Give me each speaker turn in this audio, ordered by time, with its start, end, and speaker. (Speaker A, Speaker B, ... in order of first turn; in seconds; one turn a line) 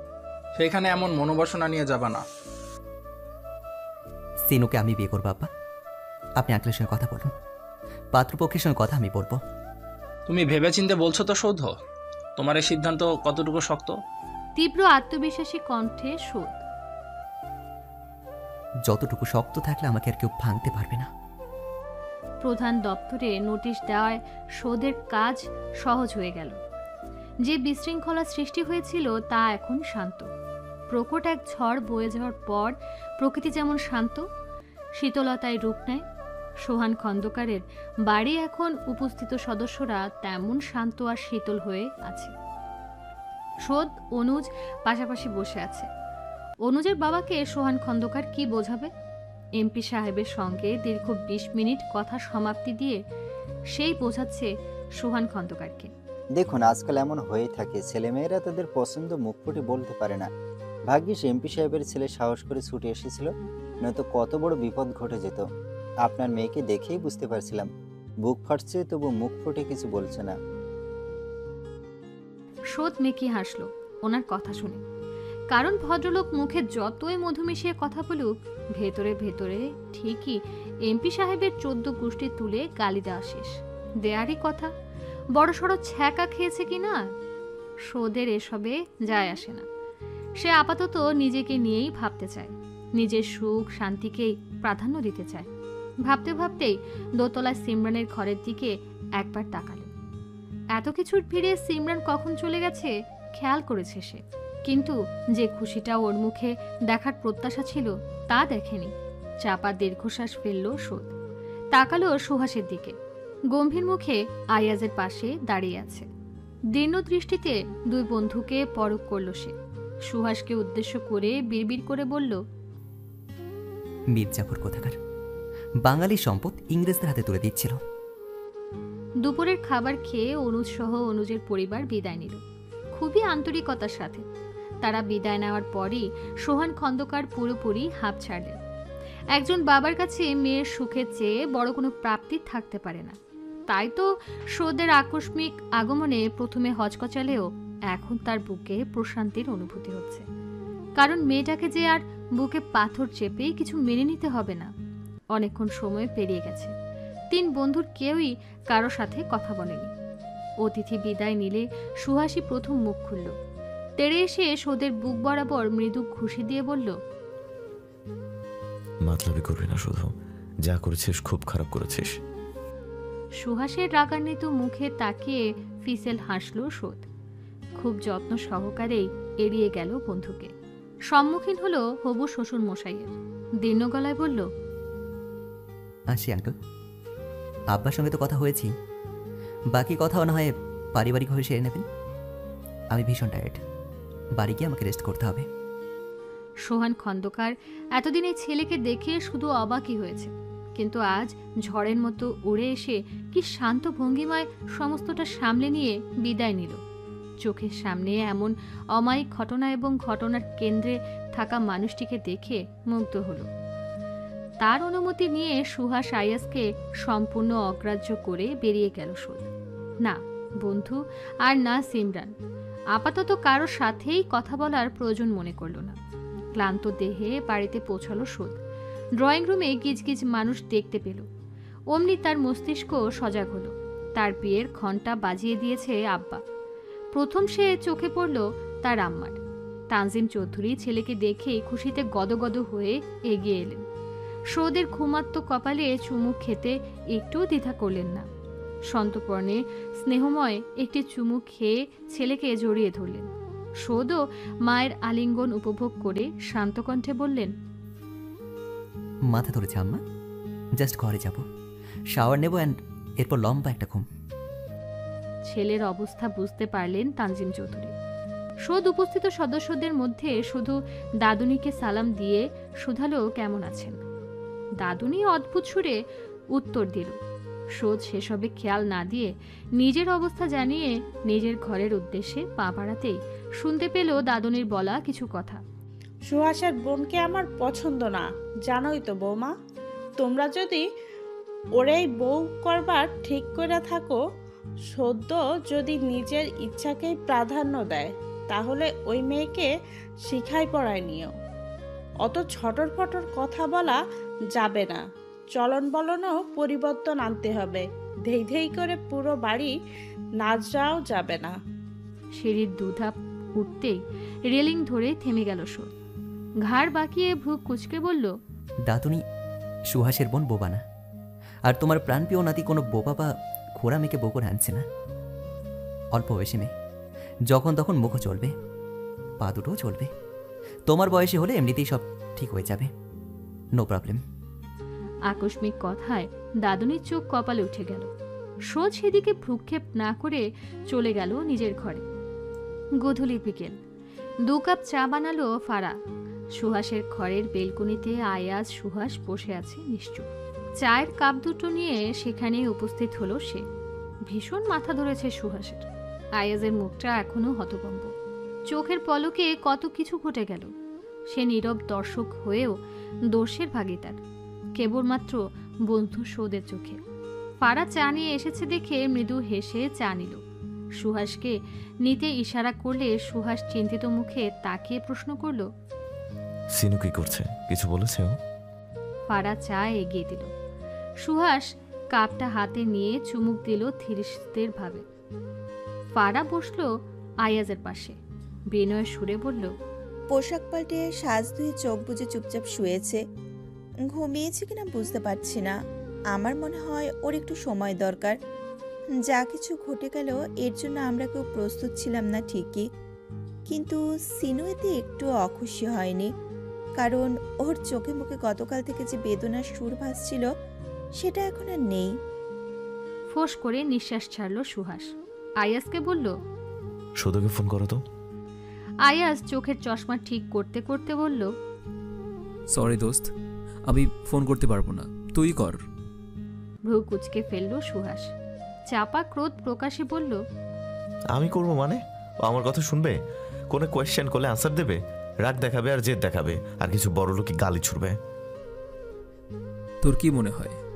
Speaker A: 0.6-2.2
Speaker B: 4.5-5.5
Speaker B: 6.4-7.3
Speaker B: 8.1-9.4
Speaker A: 10.3-11.7
Speaker A: 12.4-13.9
Speaker C: 14.6-16.6
Speaker B: 18.9-21.1
Speaker C: 22.4-26.6
Speaker C: 27.4-30.3
Speaker C: 30.9-34.2
Speaker C: 35.0-36.0
Speaker C: 36.6-42.3
Speaker C: 43.6-45.9
Speaker C: 46.6-48.9
Speaker C: 49.6-53.0
Speaker C: 53.7-55.9
Speaker D: 56.4-60.3
Speaker D: 60.9-63.3
Speaker D: 63.8-65.4
Speaker D: 66.0-67.7
Speaker D: 68.2-70.3
Speaker C: 72.7-74.8
Speaker C: 75.5-84.7
Speaker C: 85.3-87.0
Speaker C: 87.8-89.7
Speaker C: 90.4-95.5
Speaker C: 96.1-99.9
Speaker C: 100.7-111.1
Speaker C: 111.7-113.0
Speaker C: 113.5-116.1
Speaker C: 116.7-119.5
Speaker C: 120.1-122.4
Speaker B: 124.1-125.0
Speaker B: 125.8-127.8
Speaker C: 129.2-132.4
Speaker C: 132.9-134.2
Speaker C: 134.8-138.6
Speaker C: 139.3-143.2
Speaker C: 143.7-150.2
Speaker C: 151.0-154.7
Speaker C: 155.3-156.7
Speaker C: 157.3-159.9
Speaker C: 160.6-163.3
Speaker C: 164.0-167.0
Speaker E: 169.1-170.1
Speaker E: 170.6-172.1
Speaker C: 173.4-177.1
Speaker C: 177.8-180.5
Speaker C: 181.1-184.5
Speaker B: 186.1-186.5
Speaker B: 187.7-188.7
Speaker B: 189.7-191.8
Speaker B: 192.9-193.6
Speaker B: 194.3-195.5
Speaker C: 196.6-206.8
Speaker C: 207.4-213.5
Speaker C: 214.6-219.5
Speaker C: 220.0-222.3
Speaker C: 222.9-226.0
Speaker C: 226.6-228.6
Speaker C: 229.2-231.3
Speaker C: 231.9-236.4
Speaker C: 237.1-239.4
Speaker C: 239.9-243.8
Speaker C: 244.5-248.2
Speaker C: 248.9-253.3
Speaker C: 253.8-257.5
Speaker B: 259.3-260.0
Speaker B: 260.8-261.4
Speaker B: 262.1-264.1
Speaker C: 265.5-267.9
Speaker C: 268.6-274.0
Speaker C: 274.8-276.0
Speaker C: 276.5-277.2
Speaker C: 277.8-285.6
Speaker F: 286.3-289.5
Speaker F: 290.2-290.8
Speaker F: 291.8-294.2
Speaker F: 294.9-299.7
Speaker F: 300.2-301.3
Speaker F: 302.2-304.0
Speaker F: 304.5-305.0
Speaker F: 305.5-309.7
Speaker F: 310.4-311.6
Speaker C: 312.4-315.9
Speaker C: 316.6-318.3
Speaker B: 318.9-319.2
Speaker B: 319.9-320.8
Speaker B: 321.6-324.9
Speaker B: 326.1-326.7
Speaker B: 327.5-328.5
Speaker B: 329.4-330.1
Speaker B: 330.9-332.9
Speaker B: 333.8-334.2
Speaker C: 335.3-338.1
Speaker C: 338.7-342.0
Speaker C: 343.0-343.8
Speaker C: 344.5-346.0
Speaker C: 346.6-350.3
Speaker C: 350.8-353.6
Speaker C: 354.3-358.1
Speaker C: 358.7-360.7
Speaker C: 361.3-362.8
Speaker C: 363.3-364.2
Speaker C: 364.8-367.0
Speaker C: 367.6-370.4
Speaker C: 371.0-375.7
Speaker E: 376.7-378.4
Speaker C: 379.3-380.5
Speaker C: 381.2-385.0
Speaker C: 386.1-386.9
Speaker C: 387.4-388.2
Speaker C: 388.7-389.7
Speaker G: 390.3-393.2
Speaker G: 394.0-395.7
Speaker G: 396.3-398.4
Speaker G: 399.2-402.9
Speaker G: 403.7-406.3
Speaker G: 407.0-410.5
Speaker G: 411.2-412.1
Speaker C: 413.3-416.3
Speaker E: 417.2-418.0
Speaker C: 419.1-421.5
Speaker H: 422.7-423.3
Speaker H: 423.9-425.8
Speaker C: 426.9-428.3
Speaker C: 428.9-430.4
Speaker E: 431.3-433.1
Speaker E: 433.7-438.1
Speaker H: 440.0-440.8